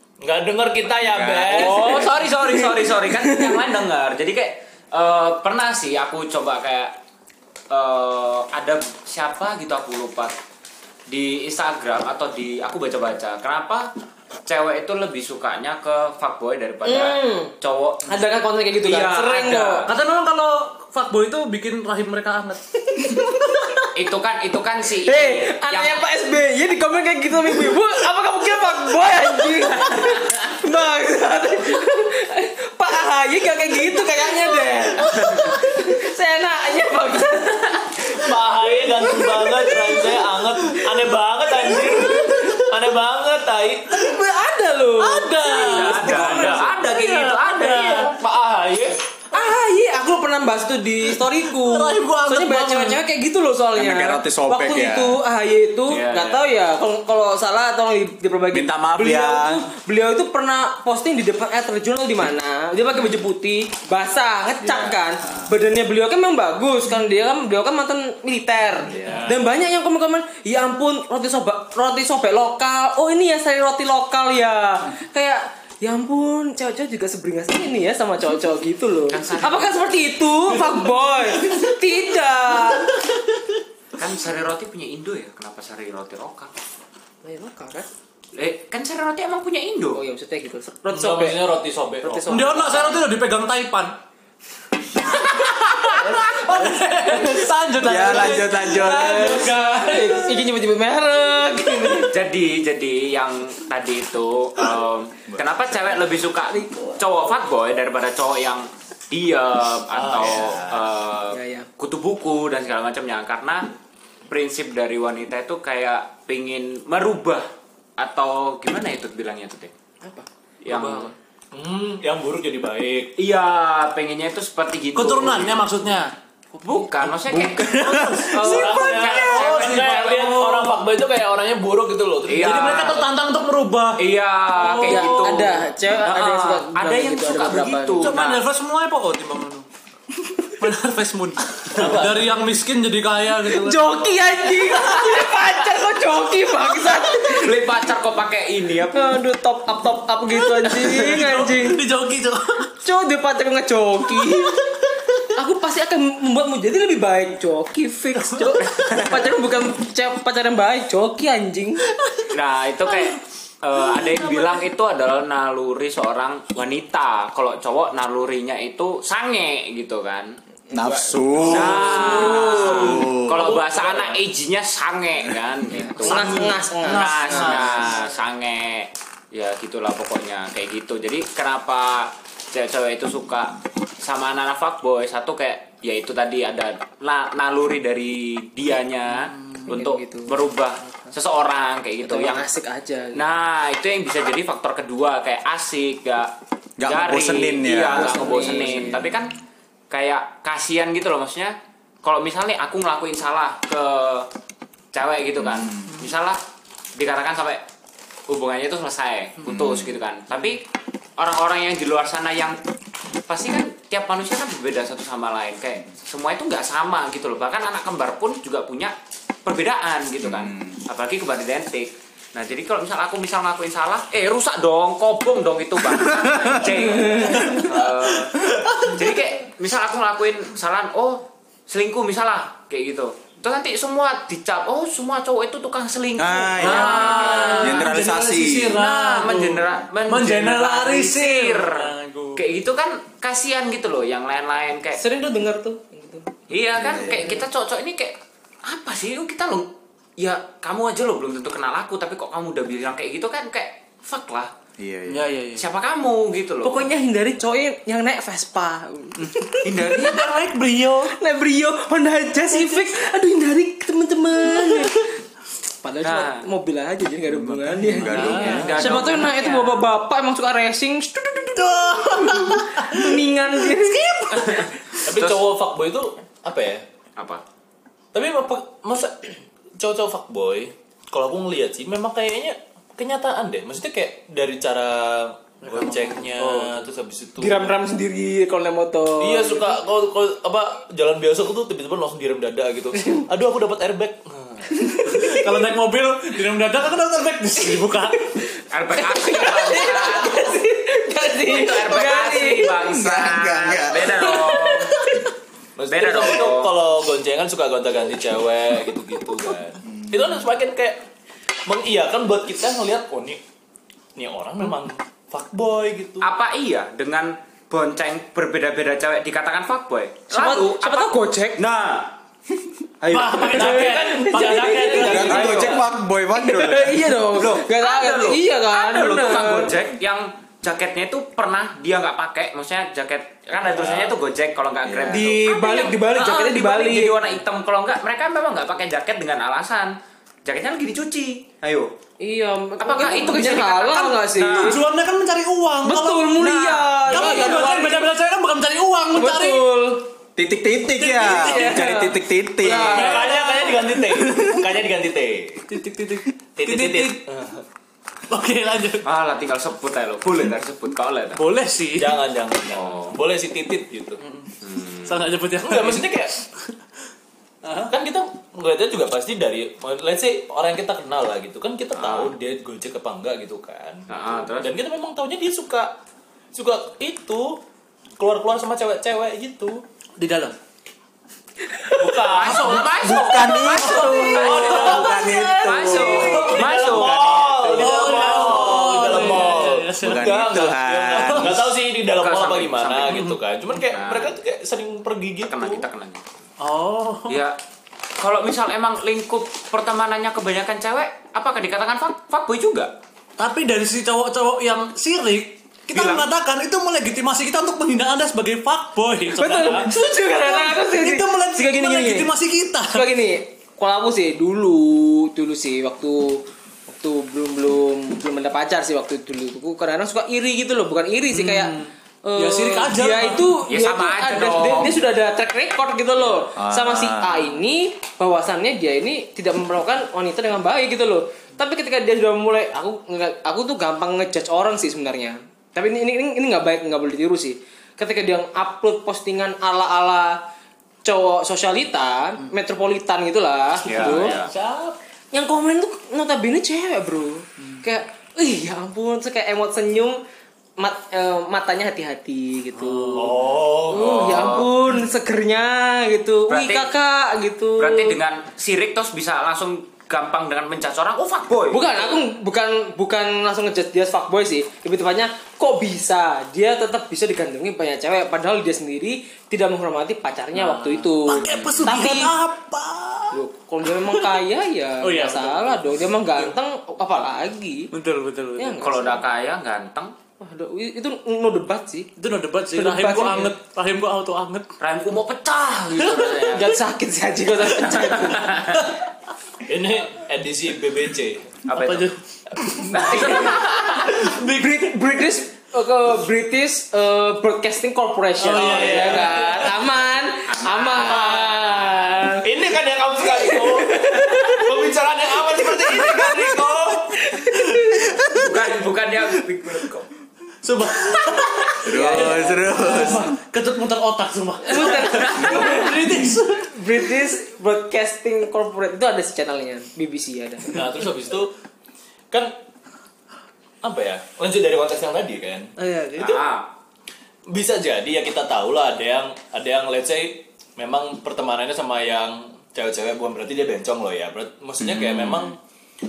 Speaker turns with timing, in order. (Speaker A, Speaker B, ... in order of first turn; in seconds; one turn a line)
Speaker A: 0.2-2.1
Speaker B: 0.8-1.6
Speaker C: 1.5-7.0
Speaker D: 1.6-3.6
Speaker C: 7.7-10.3
Speaker C: 11.1-13.9
Speaker C: 14.5-18.1
Speaker D: 16.8-17.5
Speaker D: 18.1-19.9
Speaker C: 18.8-19.9
Speaker E: 19.9-23.4
Speaker D: 23.0-23.9
Speaker C: 23.9-26.0
Speaker D: 25.0-40.8
Speaker A: 38.1-44.1
Speaker D: 41.5-42.6
Speaker D: 43.9-46.7
Speaker E: 45.0-48.1
Speaker C: 45.5-49.0
Speaker A: 45.6-46.6
Speaker A: 47.8-48.9
Speaker D: 49.3-83.0
Speaker E: 51.1-53.0
Speaker B: 53.8-55.2
Speaker C: 55.9-56.4
Speaker B: 58.5-59.6
Speaker B: 64.6-65.5
Speaker B: 68.9-69.3
Speaker A: 69.0-69.3
Speaker C: 79.1-79.7
Speaker C: 84.0-86.5
Speaker D: 87.2-87.9
Speaker C: 88.3-90.0
Speaker D: 89.9-93.0
Speaker A: 90.9-92.4
Speaker E: 92.3-93.9
Speaker E: 95.0-100.3
Speaker D: 96.0-96.8
Speaker B: 97.8-99.5
Speaker D: 98.6-102.1
Speaker C: 102.1-113.7
Speaker D: 106.7-107.0
Speaker A: 109.9-110.9
Speaker D: 111.3-111.7
Speaker C: 114.3-119.7
Speaker C: 120.6-121.1
Speaker E: 120.7-121.1
Speaker A: 121.5-123.1
Speaker C: 123.2-125.5
Speaker E: 124.9-130.8
Speaker C: 126.6-130.0
Speaker D: 128.3-128.9
Speaker A: 128.3-133.1
Speaker C: 132.2-133.1
Speaker E: 132.4-135.5
Speaker C: 134.0-138.4
Speaker D: 134.8-138.2
Speaker E: 138.0-139.7
Speaker E: 140.6-144.1
Speaker A: 141.7-142.3
Speaker D: 143.5-147.6
Speaker C: 144.8-145.2
Speaker C: 147.1-149.2
Speaker D: 148.9-151.8
Speaker E: 150.5-152.7
Speaker D: 152.8-154.8
Speaker D: 155.3-161.9
Speaker E: 158.2-158.6
Speaker C: 158.6-159.3
Speaker E: 162.0-162.3
Speaker C: 162.3-170.4
Speaker E: 163.9-164.4
Speaker D: 170.7-172.8
Speaker B: 170.7-173.5
Speaker C: 171.4-192.4
Speaker A: 171.5-174.2
Speaker D: 175.9-177.7
Speaker E: 175.9-178.0
Speaker E: 189.1-189.7
Speaker D: 189.7-190.3
Speaker D: 192.0-193.2
Speaker C: 193.1-199.3
Speaker B: 196.8-199.2
Speaker D: 197.9-198.9
Speaker C: 199.9-204.3
Speaker C: 204.9-206.4
Speaker B: 205.4-205.8
Speaker C: 206.9-207.6
Speaker C: 208.3-210.6
Speaker C: 211.2-212.6
Speaker C: 213.3-237.9
Speaker B: 220.3-220.7
Speaker B: 226.0-226.6
Speaker D: 227.0-227.5
Speaker B: 227.4-227.7
Speaker B: 236.2-238.8
Speaker E: 236.6-242.4
Speaker C: 238.8-245.0
Speaker D: 244.9-246.3
Speaker C: 246.5-254.5
Speaker B: 246.8-247.2
Speaker D: 246.9-247.5
Speaker B: 254.8-255.3
Speaker E: 255.1-255.6
Speaker C: 255.6-256.9
Speaker D: 256.6-260.1
Speaker E: 259.2-261.2
Speaker C: 259.6-260.5
Speaker D: 261.0-265.1
Speaker E: 262.5-262.9
Speaker E: 264.6-264.9
Speaker D: 265.8-274.7
Speaker C: 266.0-266.4
Speaker B: 267.3-269.2
Speaker E: 268.0-269.0
Speaker C: 268.3-269.8
Speaker E: 271.5-275.0
Speaker C: 274.4-275.4
Speaker A: 275.0-276.8
Speaker C: 277.2-277.4
Speaker A: 278.1-287.7
Speaker E: 285.6-286.8
Speaker D: 287.4-289.8
Speaker A: 289.2-295.0
Speaker D: 294.8-295.5
Speaker E: 295.1-298.4
Speaker D: 298.1-302.9
Speaker C: 298.7-300.5
Speaker C: 301.4-305.0
Speaker B: 302.7-304.5
Speaker E: 304.5-304.8
Speaker D: 304.6-305.2
Speaker A: 305.8-311.0
Speaker C: 305.9-306.7
Speaker A: 311.6-313.4
Speaker A: 314.1-316.3
Speaker C: 316.2-322.1
Speaker D: 320.3-321.6
Speaker B: 323.0-323.5
Speaker E: 323.1-325.6
Speaker A: 323.3-325.8
Speaker D: 323.3-325.8
Speaker B: 325.1-327.2
Speaker C: 325.2-325.8
Speaker D: 326.3-329.7
Speaker C: 327.3-341.9
Speaker B: 333.7-334.1
Speaker B: 334.8-335.3
Speaker D: 335.1-337.3
Speaker D: 342.2-344.8
Speaker C: 342.8-344.8
Speaker E: 343.3-346.5
Speaker D: 345.8-348.1
Speaker C: 346.4-347.4
Speaker E: 347.0-349.7
Speaker D: 349.1-350.1
Speaker B: 350.4-353.1
Speaker E: 351.0-351.9
Speaker D: 351.4-353.5
Speaker E: 352.8-354.5
Speaker A: 352.9-355.8
Speaker E: 355.7-357.2
Speaker A: 356.6-357.6
Speaker E: 358.3-359.1
Speaker C: 359.0-361.4
Speaker E: 361.4-362.2
Speaker A: 361.9-364.2
Speaker C: 362.7-363.2
Speaker E: 364.2-364.5
Speaker C: 364.6-365.3
Speaker E: 365.0-366.6
Speaker A: 365.6-366.4
Speaker E: 367.6-367.9
Speaker A: 367.9-375.9
Speaker C: 371.9-372.3
Speaker C: 374.1-374.7
Speaker A: 376.5-377.6
Speaker A: 378.2-379.8
Speaker E: 380.2-380.6
Speaker A: 381.9-383.0
Speaker C: 382.1-389.6
Speaker E: 382.4-386.7
Speaker B: 383.0-387.7
Speaker A: 384.3-385.2
Speaker D: 385.2-386.1
Speaker A: 386.1-395.9
Speaker E: 387.8-390.6
Speaker B: 390.0-391.7
Speaker E: 391.1-391.6
Speaker C: 392.1-394.4
Speaker C: 395.5-396.2
Speaker E: 396.6-397.4
Speaker C: 397.3-397.6
Speaker C: 398.2-402.9
Speaker E: 403.4-413.1
Speaker C: 405.9-406.3
Speaker D: 409.3-440.4
Speaker A: 409.6-409.8
Speaker E: 421.3-423.6
Speaker C: 423.7-425.0
Speaker B: 426.6-427.4
Speaker D: 441.0-444.4
Speaker C: 443.8-444.5
Speaker A: 444.0-444.9
Speaker E: 444.1-444.9
Speaker D: 445.3-450.2
Speaker D: 450.8-458.2
Speaker E: 452.8-453.4
Speaker A: 453.1-454.6
Speaker C: 453.9-454.7
Speaker C: 456.5-456.9
Speaker C: 457.8-462.2
Speaker D: 461.7-472.3
Speaker E: 470.5-473.4
Speaker C: 471.4-471.9
Speaker D: 473.3-477.9
Speaker E: 473.9-474.4
Speaker E: 475.0-476.5
Speaker E: 477.9-479.0
Speaker D: 478.6-479.2
Speaker C: 478.8-480.1
Speaker D: 480.4-482.1
Speaker E: 482.2-484.7
Speaker D: 482.7-483.5
Speaker C: 484.8-486.8
Speaker E: 486.0-486.3
Speaker D: 486.5-488.6
Speaker C: 488.2-488.9
Speaker E: 488.7-489.0
Speaker A: 489.6-491.5
Speaker C: 491.7-492.1
Speaker E: 491.7-493.6
Speaker C: 492.8-494.2
Speaker D: 492.9-502.5
Speaker E: 498.4-499.8
Speaker A: 498.5-499.6
Speaker C: 500.5-501.4
Speaker A: 501.0-501.5
Speaker A: 502.4-507.4
Speaker D: 503.2-504.8
Speaker D: 505.5-508.2
Speaker C: 508.2-510.1
Speaker E: 510.6-516.8
Speaker B: 511.8-513.4
Speaker D: 511.9-512.5
Speaker D: 514.6-521.0
Speaker A: 520.7-521.5
Speaker A: 523.8-526.5
Speaker E: 525.8-526.2
Speaker C: 526.2-526.7
Speaker A: 527.5-535.6
Speaker B: 534.8-535.5